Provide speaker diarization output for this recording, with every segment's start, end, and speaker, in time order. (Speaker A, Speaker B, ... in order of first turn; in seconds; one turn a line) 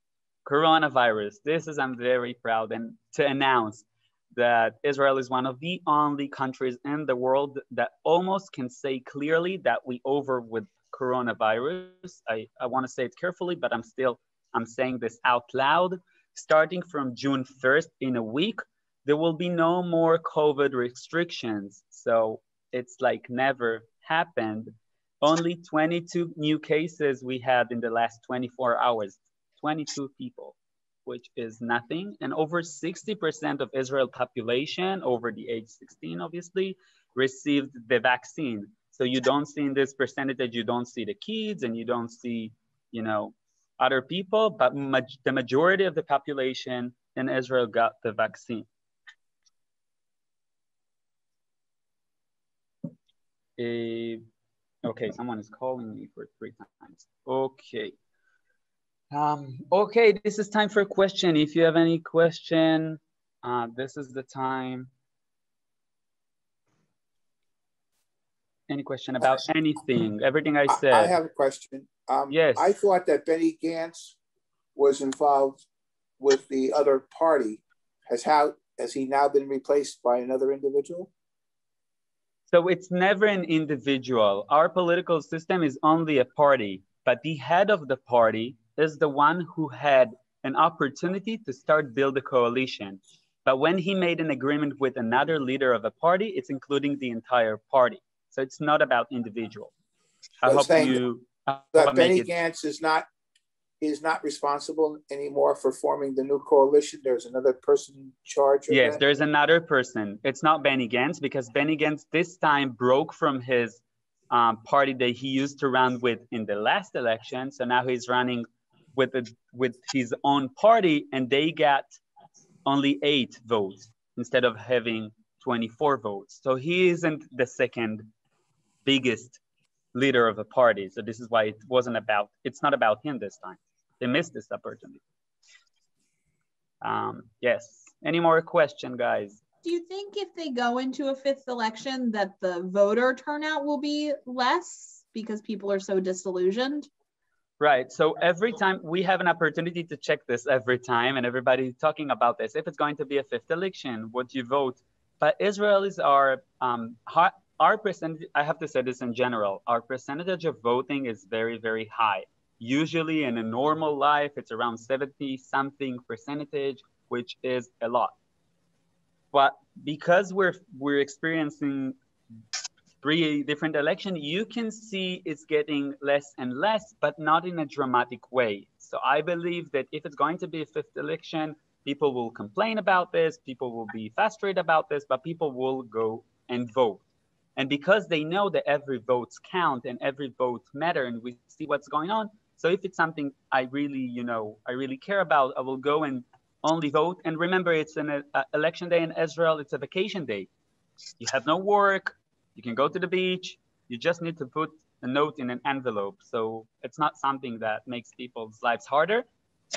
Speaker A: 0.4-48.7
Speaker A: 53.6-54.2
Speaker A: 54.8-57.9
Speaker A: 59.1-64.9
Speaker A: 68.7-71.1
Speaker B: 70.7-74.1
Speaker A: 72.3-72.7
Speaker B: 74.7-75.6
Speaker B: 76.2-81.1
Speaker A: 82.5-99.7
Speaker A: 100.4-102.3
Speaker B: 100.5-101.0
Speaker B: 101.7-103.0
Speaker B: 103.8-109.0
Speaker A: 108.7-122.0
Speaker A: 122.7-128.1
Speaker A: 128.8-129.4
Speaker A: 129.9-135.0
Speaker A: 136.8-139.4
Speaker C: 139.6-146.9
Speaker A: 147.6-168.1
Speaker A: 169.3-171.9
Speaker A: 173.0-187.0
Speaker A: 187.6-200.5
Speaker A: 201.2-209.2